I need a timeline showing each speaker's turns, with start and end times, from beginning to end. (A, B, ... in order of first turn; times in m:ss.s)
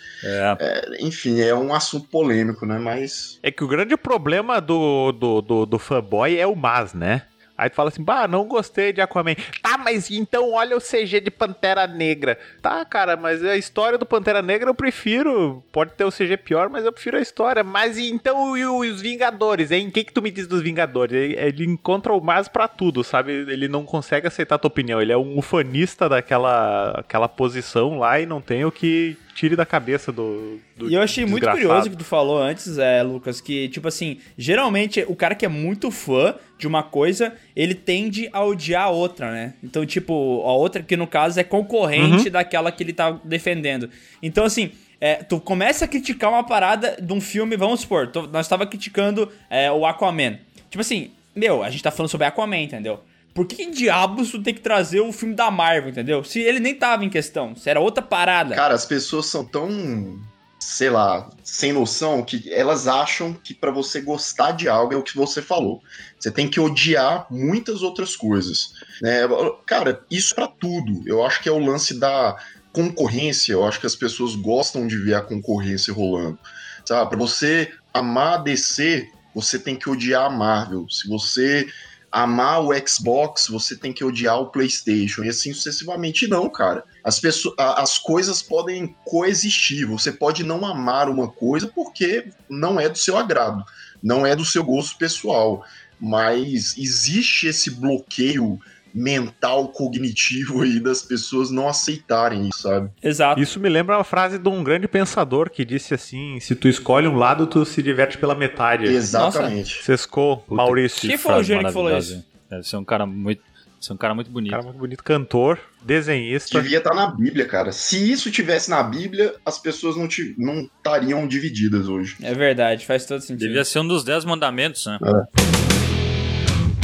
0:00.2-0:00.6 A
0:00.6-0:03.3 B
0:03.4-0:31.9 C
0:30.8-0:58.6 D
0:42.0-0:42.3 C
0:58.5-1:42.9 B
1:43.0-1:43.4 D
1:43.4-1:49.0 C
1:48.8-1:49.8 B
1:49.1-1:49.5 D
1:49.8-1:51.2 C
1:50.5-1:54.6 A
1:51.0-1:52.2 D
1:54.5-1:56.7 C
1:56.5-2:02.2 B
2:02.2-2:03.6 D
2:03.4-2:05.0 A